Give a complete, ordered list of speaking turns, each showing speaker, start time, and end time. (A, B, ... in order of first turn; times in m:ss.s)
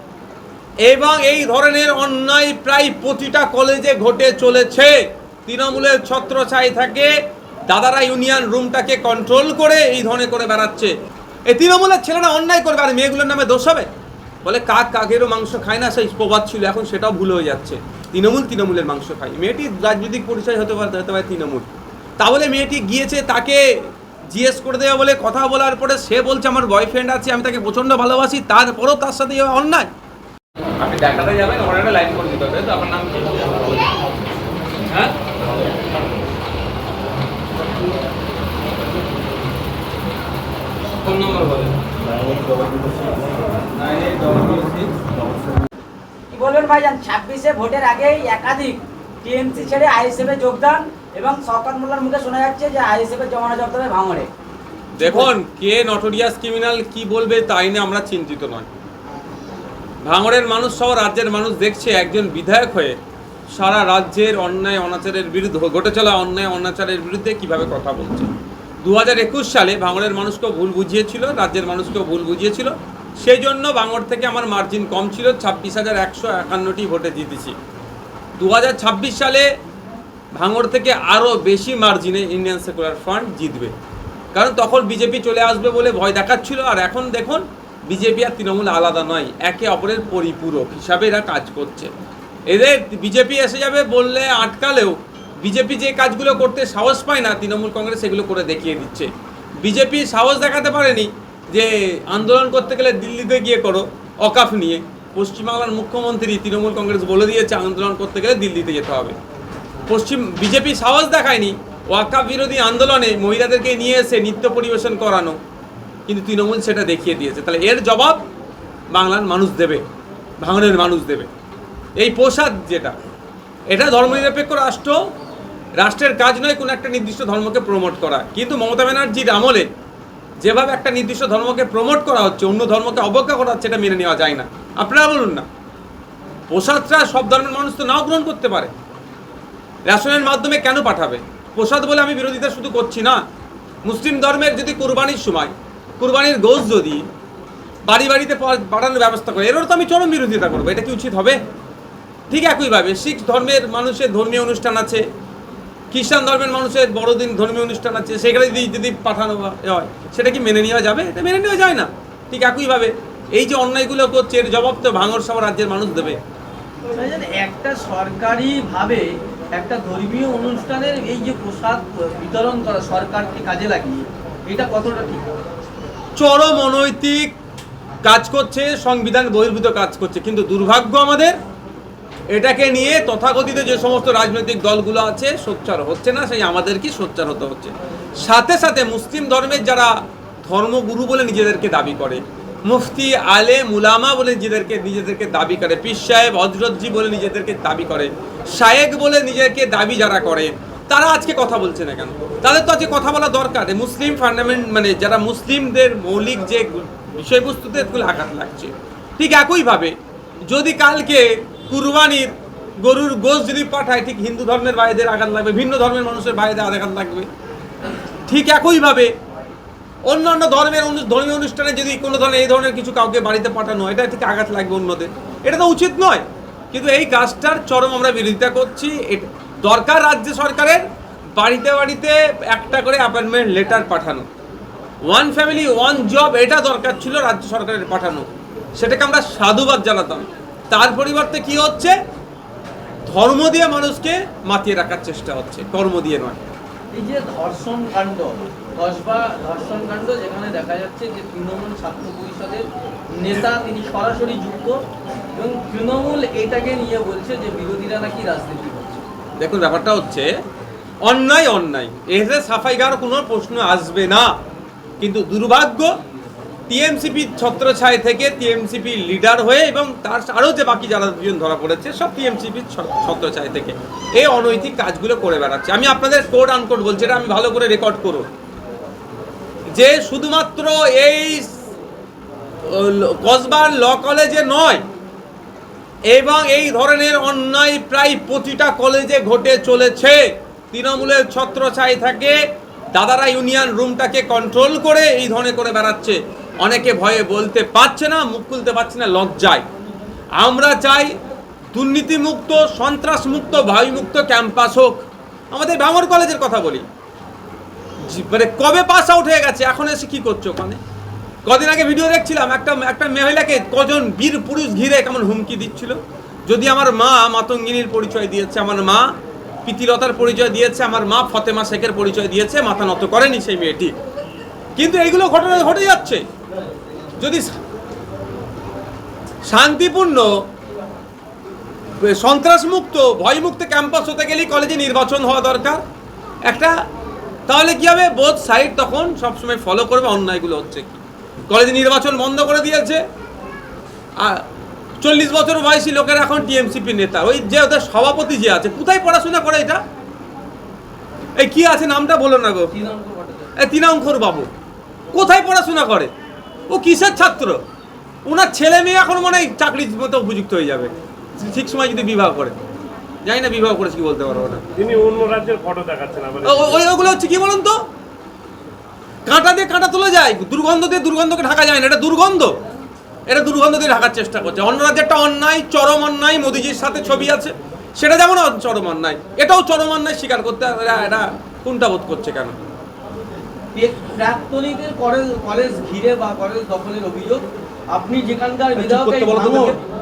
0:00.8-0:07.1 A
0:07.7-0:10.9 A
0:11.5-0:13.9 A
0:14.4-0:21.7 A
0:22.2-0:23.6 A
0:24.3-0:29.9 A
0:30.8-0:33.6 A
0:34.9-0:35.1 A
0:41.0-0:41.8 A
0:43.8-0:45.0 A
0:46.3-0:54.3 B
0:55.0-0:58.7 A
0:55.0-0:55.3 B
1:00.0-1:03.0 A
1:03.5-1:08.3 A
1:08.8-1:17.6 A
1:18.4-1:19.5 A
1:20.4-1:23.7 A
1:24.3-1:31.9 A
1:32.5-1:49.2 A
1:49.9-1:55.4 A
1:56.1-1:58.2 A
1:58.9-1:59.8 A
2:00.4-2:01.3 A
2:02.0-2:03.0 A
2:03.7-2:05.0 A
2:05.8-2:09.7 A
2:10.4-2:15.5 A
2:16.5-2:18.7 A
2:19.9-2:23.2 A
2:23.8-2:27.0 A
2:27.9-2:31.4 A
2:32.3-2:35.0 A
2:35.9-2:46.2 A
2:46.9-2:55.3 C
2:56.2-2:57.3 A
2:58.0-3:01.4 A
3:02.3-3:29.9 A
3:30.5-3:37.3 A
3:38.3-3:39.1 A
3:40.1-3:50.8 A
3:51.4-3:54.3 A
3:55.1-4:02.0 A
4:03.1-4:06.4 A
4:06.9-4:12.6 C
4:13.2-4:14.8 C
4:15.4-4:19.0 C
4:19.4-4:20.3 A
4:21.0-4:24.3 A
4:25.0-4:25.9 A
4:26.7-4:38.3 A
4:39.7-4:41.5 A
4:42.6-4:44.8 A
4:46.1-4:52.4 A
4:52.9-4:59.7 A
5:00.4-5:01.2 A
5:01.7-5:06.9 A
5:08.0-5:10.8 A
5:11.5-5:19.0 A
5:19.7-5:23.9 A
5:24.8-5:26.2 A
5:27.2-5:27.5 A
5:29.5-5:30.3 A
5:32.0-5:35.8 A
5:36.5-5:36.8 A
5:37.5-5:43.0 A
5:44.2-5:44.4 A
5:45.0-5:49.8 A
5:51.4-5:52.7 A
5:52.7-5:53.5 C
5:53.6-5:54.5 A
5:55.1-5:56.1 A
5:56.7-5:57.6 A
5:58.3-6:02.6 A
6:03.3-6:04.6 A
6:04.8-6:06.8 D
6:06.4-6:07.8 A
6:09.3-6:12.6 A
6:13.3-6:22.6 A
6:23.8-6:29.8 C
6:28.8-6:29.8 A